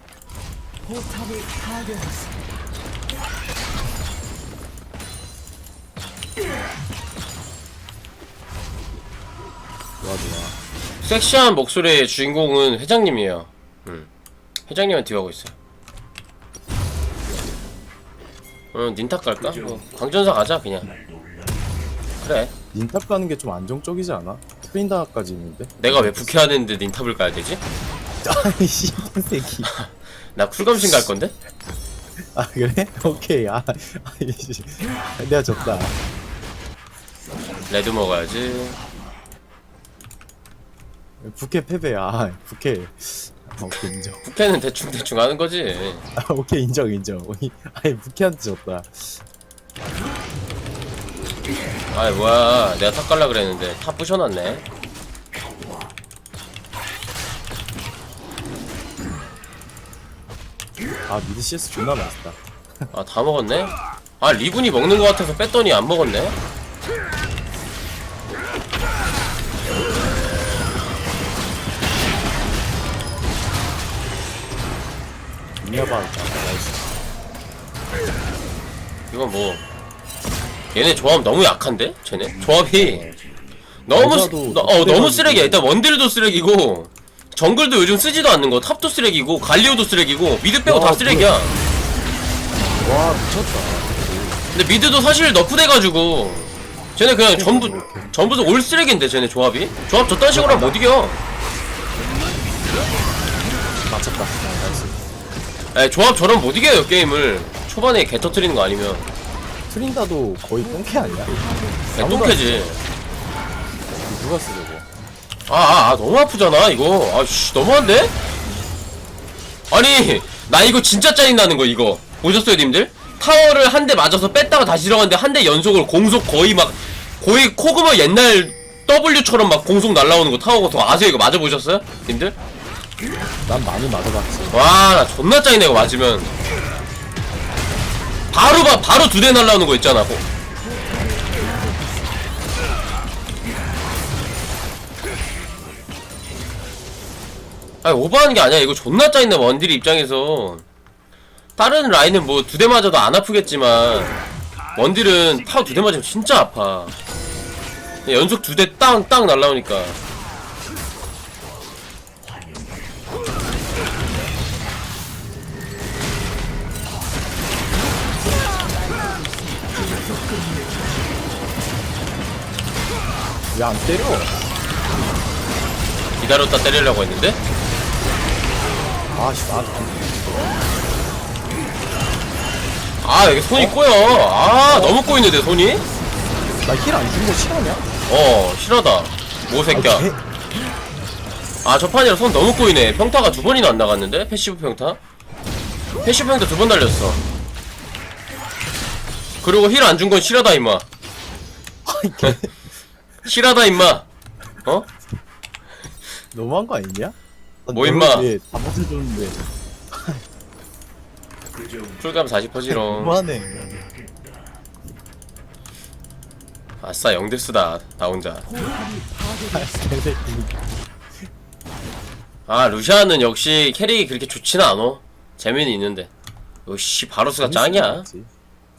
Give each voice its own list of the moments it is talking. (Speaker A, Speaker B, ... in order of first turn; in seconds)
Speaker A: 0.8-2.4, 111.0-111.8, 140.7-142.2, 168.4-169.8, 218.5-219.7
Speaker B: 10.0-10.6, 22.7-26.3, 28.2-29.7, 32.3-36.0, 41.2-44.2, 46.1-49.2, 61.1-62.9, 75.6-76.9, 82.7-83.2, 83.9-85.7, 90.6-91.3, 92.7-94.4, 97.3-98.2, 100.3-100.8, 103.9-105.0, 109.7-112.8, 113.9-114.8, 133.4-134.7, 173.5-174.3, 179.1-180.6, 183.5-183.8, 184.7-185.0, 186.6-187.9, 189.7-190.2, 201.8-202.6, 206.3-210.2, 212.6-213.9, 219.5-220.6, 227.4-228.3
Speaker C: 11.0-14.1, 14.7-15.5, 18.7-20.9, 22.2-22.5, 25.8-27.6, 29.7-31.3, 37.7-38.8, 43.6-46.0, 51.9-54.6, 62.9-66.3, 79.1-79.6, 80.7-83.0, 83.8-91.5, 94.5-101.2, 105.7-109.1, 112.0-112.8, 115.5-118.1, 119.7-132.3, 134.5-136.3, 138.3-140.2, 147.8-150.6, 151.6-154.2, 154.7-156.9, 158.0-160.0, 176.2-177.4, 183.0-185.8, 188.1-190.1, 191.6-195.0, 196.0-197.2, 199.4-200.8, 203.2-204.1, 207.7-208.3, 212.0-213.2, 216.8-218.5, 222.5-226.1, 226.7-228.1